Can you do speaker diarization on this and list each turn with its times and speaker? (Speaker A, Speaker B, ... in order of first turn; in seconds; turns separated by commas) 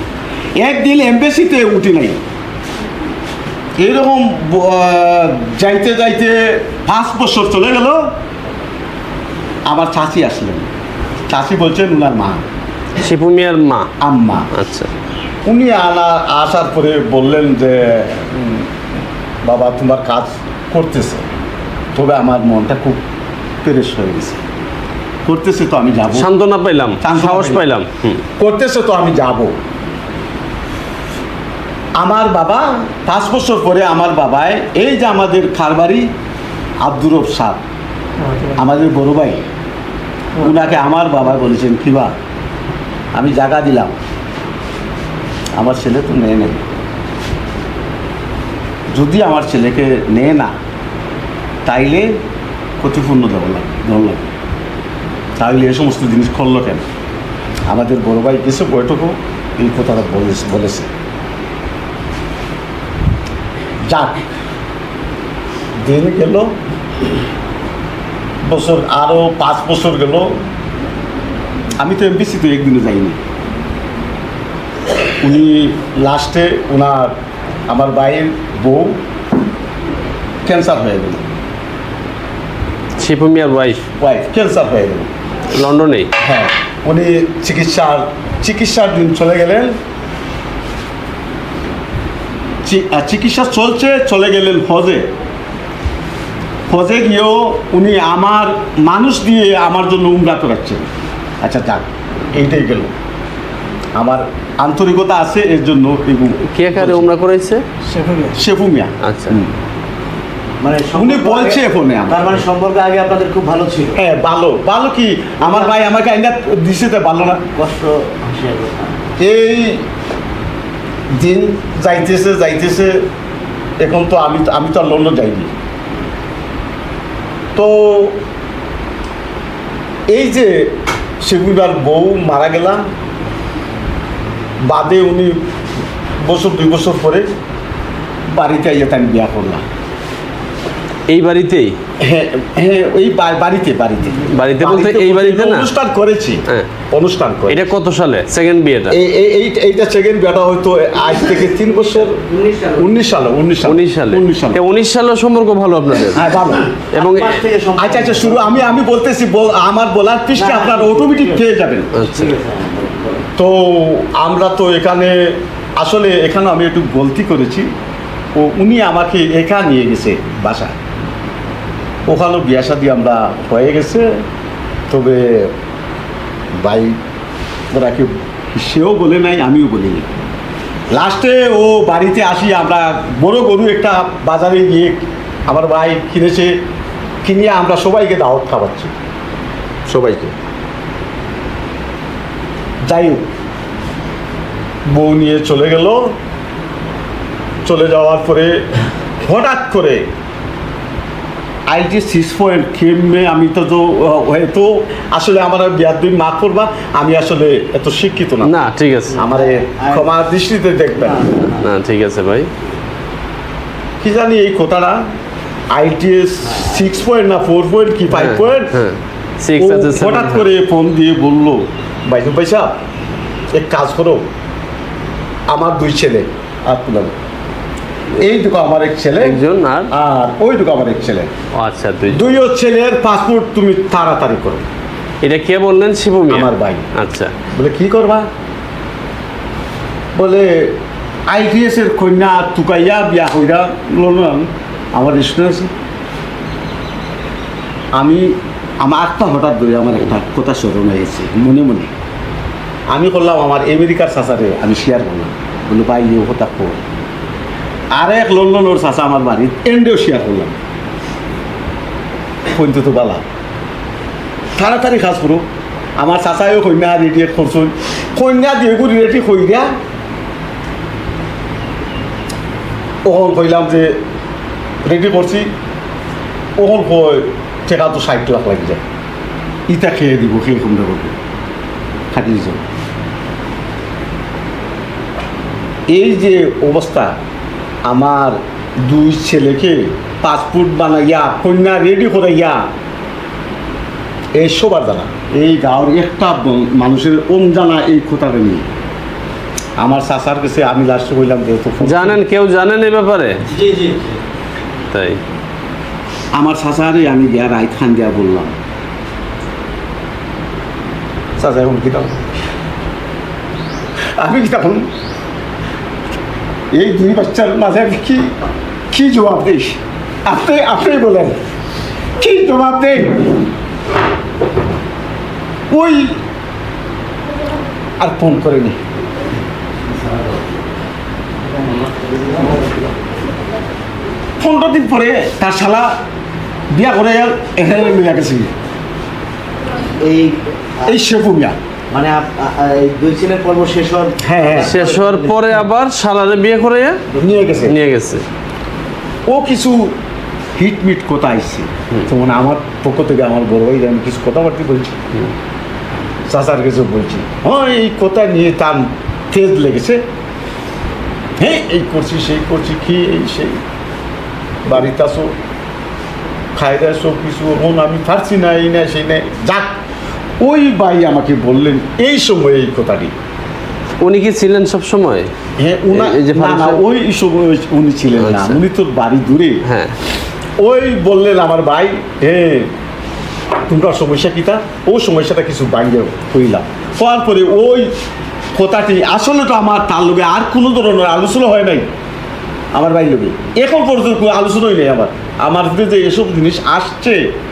Speaker A: 0.6-2.2, Speaker A: 3.8-8.1, Speaker A: 9.7-10.7, Speaker A: 11.3-12.4, Speaker B: 13.0-13.9, Speaker A: 14.0-14.5, Speaker B: 14.5-14.9, Speaker A: 15.5-18.7, Speaker A: 19.4-21.3, Speaker A: 21.9-23.0, Speaker A: 23.6-24.4, Speaker A: 25.3-26.3, Speaker B: 26.1-28.2, Speaker A: 27.0-27.6, Speaker A: 28.4-29.5, Speaker A: 32.0-36.1, Speaker A: 36.8-37.6, Speaker A: 38.5-39.4, Speaker A: 40.4-42.1, Speaker A: 43.1-44.0, Speaker A: 45.6-46.6, Speaker A: 48.9-50.5, Speaker A: 51.7-52.1, Speaker A: 52.8-54.3, Speaker A: 55.4-56.8, Speaker A: 57.7-60.9, Speaker A: 63.9-64.2, Speaker A: 65.8-66.5, Speaker A: 68.4-70.4, Speaker A: 71.8-73.2, Speaker A: 75.2-77.1, Speaker A: 77.7-79.0, Speaker A: 80.5-81.2, Speaker B: 83.0-83.8, Speaker A: 84.0-85.1, Speaker B: 85.5-86.1, Speaker A: 86.2-89.8, Speaker A: 92.7-95.1, Speaker A: 96.7-100.9, Speaker A: 101.4-102.9, Speaker A: 104.0-107.1, Speaker B: 106.5-107.6, Speaker A: 108.3-109.5, Speaker B: 109.0-109.4, Speaker C: 110.6-114.0, Speaker A: 110.9-112.3, Speaker A: 114.0-117.4, Speaker C: 115.5-115.8, Speaker C: 117.5-119.0, Speaker A: 119.2-119.8, Speaker A: 121.2-123.0, Speaker A: 123.8-125.5, Speaker A: 127.5-128.2, Speaker A: 130.1-132.8, Speaker A: 134.7-135.4, Speaker A: 136.2-137.3, Speaker A: 138.3-139.6, Speaker B: 141.1-141.8, Speaker A: 142.0-147.7, Speaker B: 144.3-145.7, Speaker B: 147.5-149.0, Speaker A: 148.9-152.2, Speaker C: 152.3-152.8, Speaker A: 152.8-154.6, Speaker B: 153.6-156.3, Speaker A: 156.1-156.7, Speaker C: 156.8-158.6, Speaker B: 156.9-157.4, Speaker A: 157.8-161.9, Speaker C: 160.3-161.4, Speaker B: 162.0-162.3, Speaker C: 162.0-163.3, Speaker A: 163.4-167.7, Speaker A: 168.4-170.8, Speaker A: 172.1-174.2, Speaker A: 174.9-175.5, Speaker A: 176.6-177.0, Speaker A: 177.7-180.1, Speaker A: 180.9-186.5, Speaker A: 187.2-188.9, Speaker A: 189.9-190.3, Speaker A: 192.9-193.2, Speaker A: 194.9-196.1, Speaker A: 197.7-198.6, Speaker A: 199.2-200.0, Speaker A: 201.7-208.5, Speaker B: 208.4-209.2, Speaker A: 209.2-211.3, Speaker C: 209.8-210.1, Speaker C: 211.0-211.6, Speaker B: 211.4-212.5, Speaker A: 214.0-215.0, Speaker A: 215.7-218.7, Speaker B: 218.1-220.5, Speaker A: 219.6-222.7, Speaker A: 223.6-224.2, Speaker A: 225.5-227.1, Speaker A: 228.2-229.4, Speaker B: 229.2-229.9, Speaker A: 229.9-231.3, Speaker B: 231.6-232.4, Speaker A: 232.1-234.7, Speaker B: 235.2-237.3, Speaker A: 236.3-236.9, Speaker A: 237.5-238.3, Speaker A: 240.2-240.8, Speaker A: 241.3-245.7, Speaker A: 247.9-251.9, Speaker A: 252.9-256.8, Speaker A: 257.9-260.6, Speaker A: 262.5-263.2, Speaker A: 264.6-265.4, Speaker A: 266.0-269.7, Speaker A: 273.1-274.0, Speaker A: 274.9-275.5, Speaker A: 276.6-278.8, Speaker A: 279.7-281.1, Speaker A: 282.1-282.6, Speaker A: 285.9-287.1, Speaker A: 287.9-292.6, Speaker A: 294.4-298.6, Speaker A: 299.8-302.2, Speaker B: 301.8-303.4, Speaker B: 304.9-305.2, Speaker A: 306.4-308.5, Speaker A: 311.4-312.2, Speaker A: 314.2-314.9, Speaker A: 316.7-318.3, Speaker A: 318.9-321.4, Speaker A: 322.2-323.4, Speaker A: 325.7-326.1, Speaker A: 328.0-328.8, Speaker A: 334.4-335.9, Speaker A: 336.7-338.5, Speaker C: 340.0-341.0, Speaker A: 340.9-341.6, Speaker C: 341.9-345.6, Speaker A: 344.2-344.8, Speaker B: 344.6-347.0, Speaker A: 347.1-347.8, Speaker B: 347.7-348.2, Speaker A: 349.3-349.9, Speaker A: 350.6-355.0, Speaker A: 356.3-360.0, Speaker A: 361.4-363.6, Speaker A: 364.7-365.3, Speaker A: 366.6-369.7, Speaker A: 370.4-373.1, Speaker B: 374.0-375.3, Speaker A: 375.6-379.6, Speaker B: 375.9-376.8, Speaker B: 378.2-378.6, Speaker B: 379.6-379.9, Speaker A: 380.6-382.7, Speaker A: 383.7-387.9, Speaker A: 388.6-391.9, Speaker A: 392.7-397.2